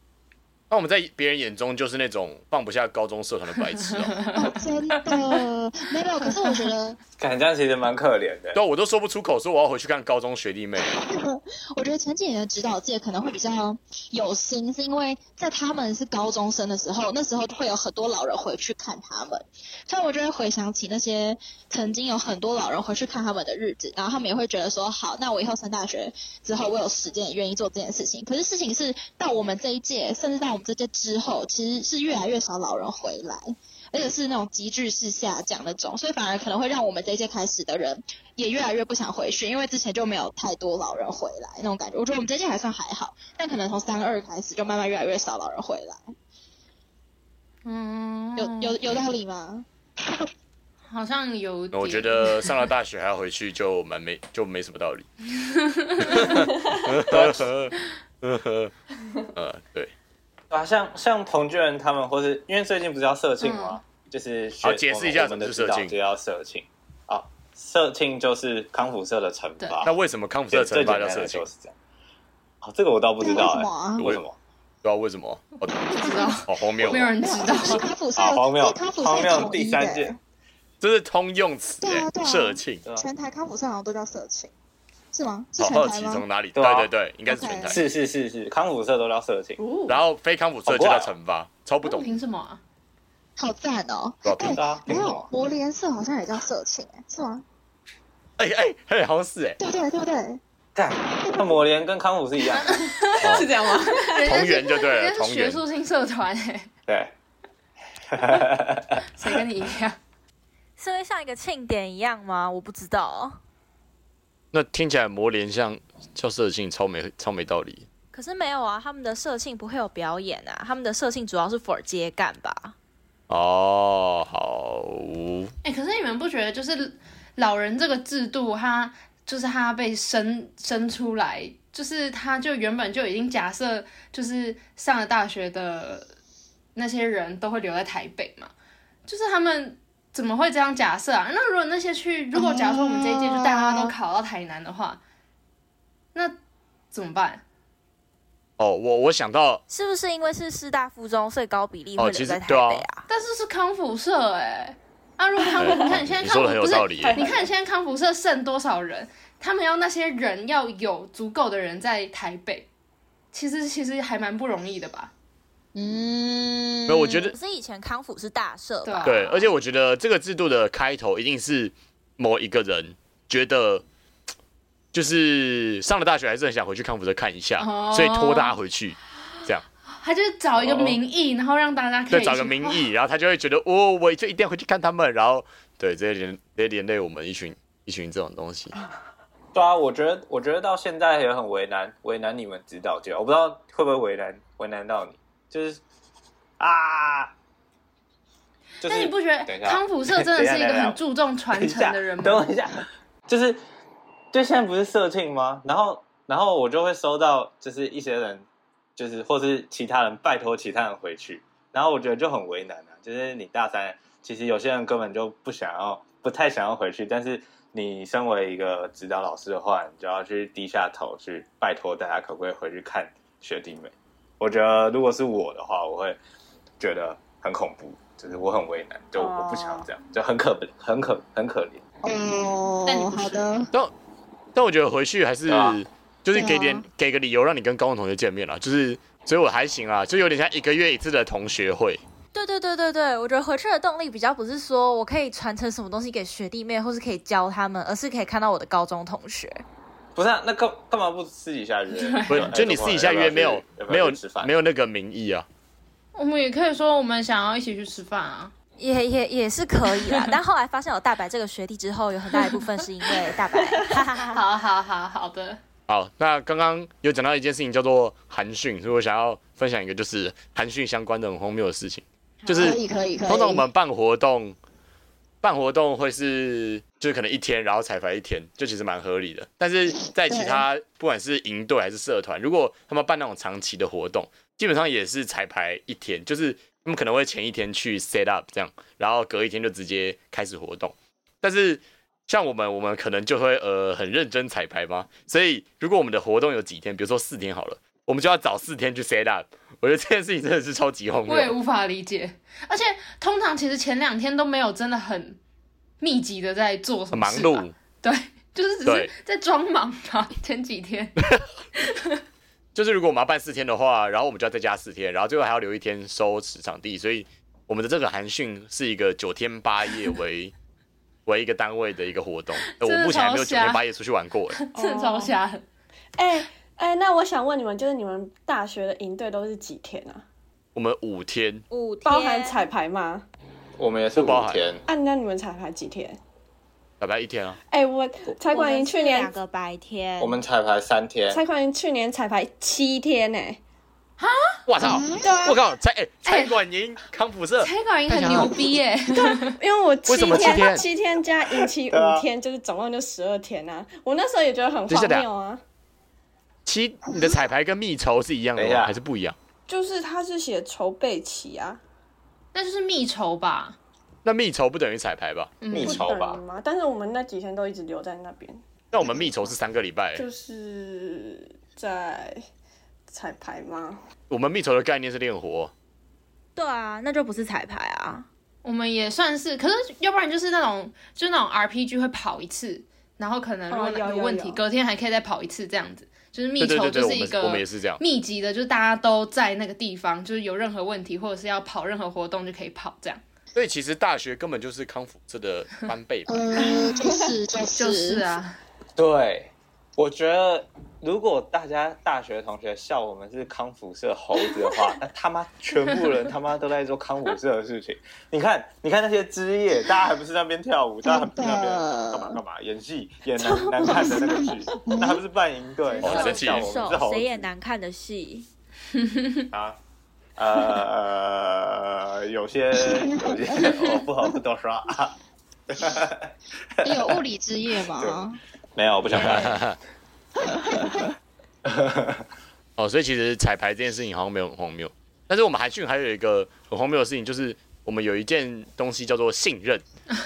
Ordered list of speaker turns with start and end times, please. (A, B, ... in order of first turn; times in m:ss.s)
0:00.7-0:04.2 A
0:03.7-0:05.4 B
0:04.4-0:07.0 C
0:07.2-0:08.6 D
0:08.5-0:10.9 A
0:10.8-0:46.1 C
0:47.6-0:48.8 B
0:48.4-0:50.2 C
0:50.9-0:52.6 B
0:51.7-0:55.1 A
0:55.7-0:56.4 B
0:56.0-0:58.7 A
0:57.0-0:57.5 D
0:59.4-0:59.9 A
1:00.5-1:09.9 D
1:03.4-1:03.8 B
1:04.6-1:06.0 A
1:09.8-1:11.4 A
1:10.5-1:11.8 D
1:12.6-1:14.4 D
1:13.2-1:14.0 C
1:14.8-1:17.1 A
1:15.9-1:17.9 B
1:15.9-1:16.4 C
1:17.2-1:20.2 C
1:18.2-1:20.2 D
1:20.8-1:22.8 A
1:21.8-1:24.5 C
1:25.1-1:26.2 C
1:25.6-1:27.8 A
1:26.5-1:26.9 D
1:27.3-1:27.8 C
1:27.7-1:29.6 D
1:29.6-1:30.0 E
1:29.9-1:32.1 A
1:30.6-1:31.1 D
1:31.8-1:32.6 B
1:33.4-1:37.4 C
1:34.2-1:34.6 A
1:34.5-1:35.3 D
1:38.4-1:39.6 A
1:39.6-1:40.4 C
1:40.8-1:42.8 D
1:41.2-1:41.5 C
1:42.7-1:46.7 B
1:43.2-1:43.5 A
1:43.2-1:44.3 E
1:44.2-1:45.6 A
1:46.9-1:47.1 D
1:48.1-1:49.0 D
1:49.1-1:50.0 B
1:50.8-1:53.4 F
1:54.5-1:57.9 A
1:58.1-2:02.8 F
2:03.3-2:05.5 A
2:05.6-2:16.1 B
2:16.8-2:18.5 B
2:19.0-2:25.0 B
2:22.4-2:23.9 C
2:26.9-2:27.4 B
2:28.6-2:29.6 A
2:29.7-2:33.0 F
2:32.0-2:32.9 A
2:33.1-2:42.7 B
2:35.6-2:37.2 A
2:35.6-2:35.9 E
2:36.9-2:37.5 E
2:43.3-2:45.1 B
2:45.8-2:47.2 C
2:46.9-2:47.4 A
2:47.3-2:49.5 F
2:48.8-2:49.3 B
2:49.0-2:53.8 A
2:54.9-2:59.6 A
2:57.6-2:58.5 B
3:00.0-3:02.9 B
3:00.6-3:01.0 D
3:02.1-3:08.7 A
3:09.5-3:15.8 D
3:16.6-3:17.3 D
3:18.8-3:21.0 D
3:18.8-3:22.4 B
3:21.5-3:23.6 D
3:24.3-3:28.4 D
3:29.0-3:46.2 D
3:46.8-3:51.8 D
3:49.2-3:49.8 E
3:52.0-3:53.7 C
3:52.8-3:53.4 B
3:54.5-4:02.0 A
3:55.5-3:55.8 D
3:56.3-3:56.8 C
4:02.3-4:09.6 F
4:10.2-4:14.5 D
4:11.9-4:12.5 B
4:12.3-4:15.5 A
4:16.2-4:18.5 B
4:18.8-4:24.4 F
4:24.3-4:25.6 B
4:25.9-4:34.6 A
4:32.4-4:32.7 F
4:32.5-4:33.6 C
4:35.4-5:01.5 A
4:39.9-4:40.6 C
5:01.3-5:05.4 B
5:06.0-5:11.2 B
5:07.1-5:07.8 A
5:08.8-5:09.1 A
5:11.2-5:11.5 A
5:11.8-5:12.2 B
5:12.8-5:20.5 A
5:21.2-5:24.6 A
5:22.7-5:23.8 B
5:24.6-5:25.6 B
5:24.7-5:25.3 E
5:26.2-5:30.2 E
5:30.8-5:31.6 A
5:31.7-5:32.6 F
5:32.0-5:33.2 E
5:33.8-5:34.8 D
5:34.2-5:34.8 A
5:34.8-5:36.2 E
5:37.0-5:37.6 A
5:37.7-5:39.3 E
5:38.4-5:40.4 F
5:40.2-5:41.4 D
5:41.3-5:43.6 E
5:44.2-5:44.6 B
5:44.7-5:48.6 A
5:44.8-5:45.6 C
5:45.2-5:45.6 E
5:46.2-5:46.5 B
5:47.6-5:49.6 B
5:49.2-5:55.6 E
5:50.1-5:50.8 A
5:51.6-5:52.2 D
5:54.9-5:55.2 A
5:56.7-5:59.4 A
5:58.6-5:59.0 D
5:59.7-6:01.8 E
6:02.5-6:03.8 B
6:04.2-6:05.5 A
6:05.6-6:06.0 B
6:05.7-6:06.4 D
6:05.8-6:09.5 E
6:08.9-6:10.2 A
6:10.2-6:12.4 E
6:13.1-6:14.0 E
6:14.3-6:15.7 A
6:16.6-6:18.3 F
6:18.6-6:33.2 B
6:23.7-6:24.6 E
6:26.6-6:28.0 A
6:33.5-6:36.5 A
6:36.3-6:38.2 C
6:37.8-6:38.6 B
6:39.0-6:57.5 D
6:51.0-6:52.4 C
6:53.4-6:54.1 E
6:53.8-6:55.2 C
6:56.0-6:58.5 F
6:56.0-6:56.7 A
6:59.0-6:59.4 B
6:59.5-6:59.8 D
7:00.4-7:05.2 D
7:02.8-7:03.9 C
7:05.7-7:07.2 D
7:06.8-7:08.4 C
7:08.0-7:08.2 D
7:08.8-7:09.6 D
7:09.1-7:09.8 A
7:10.5-7:11.0 C
7:11.6-7:12.3 D
7:12.8-7:19.8 A